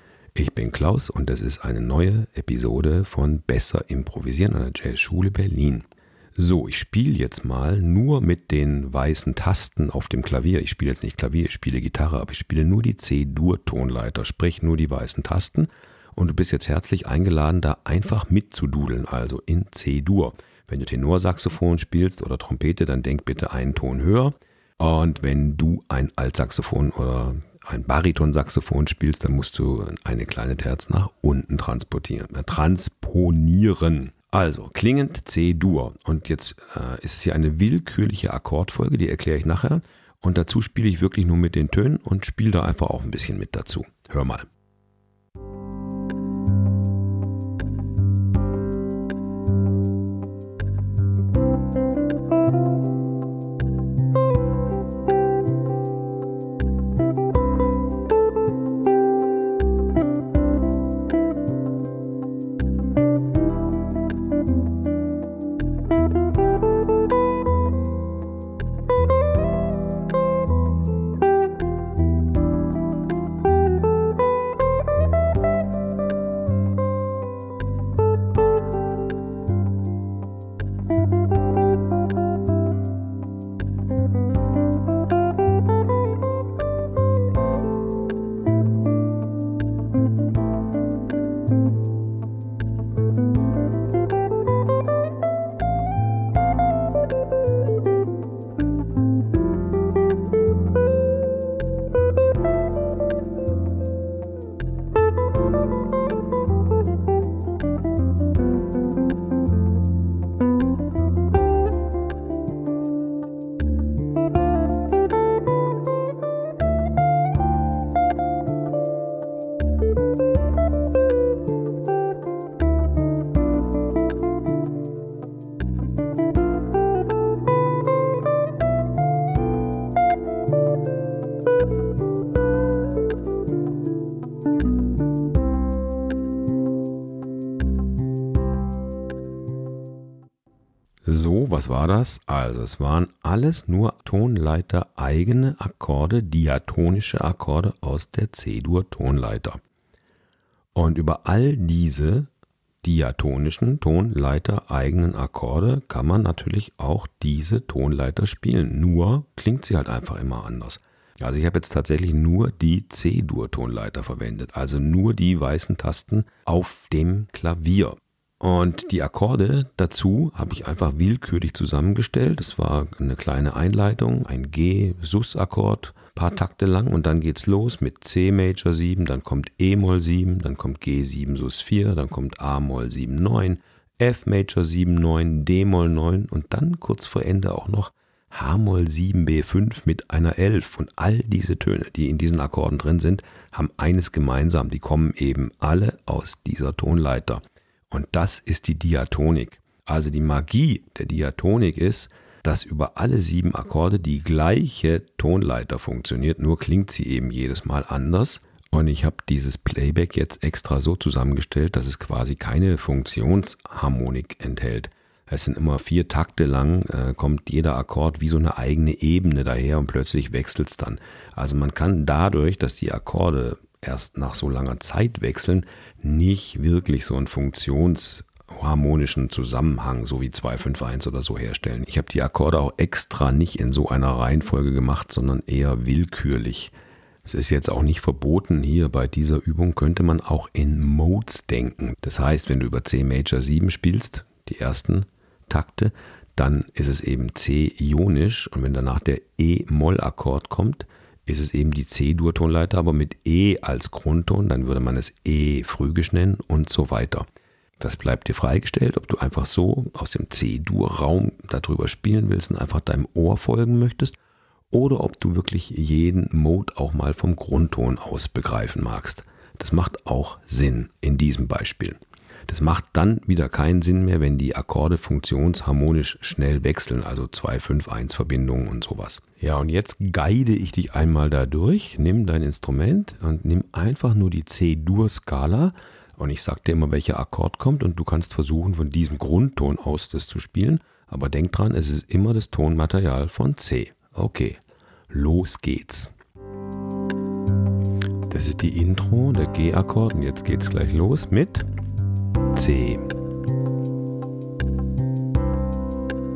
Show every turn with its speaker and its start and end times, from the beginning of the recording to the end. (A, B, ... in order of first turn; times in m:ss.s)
0:00.4-0:44.5 A
2:21.0-2:29.6 A
2:30.8-2:32.3 A
2:32.8-3:56.7 A
3:57.2-4:17.3 A
4:17.8-4:24.2 A
4:24.7-4:56.1 A
4:58.3-5:01.7 A
5:02.5-5:03.1 A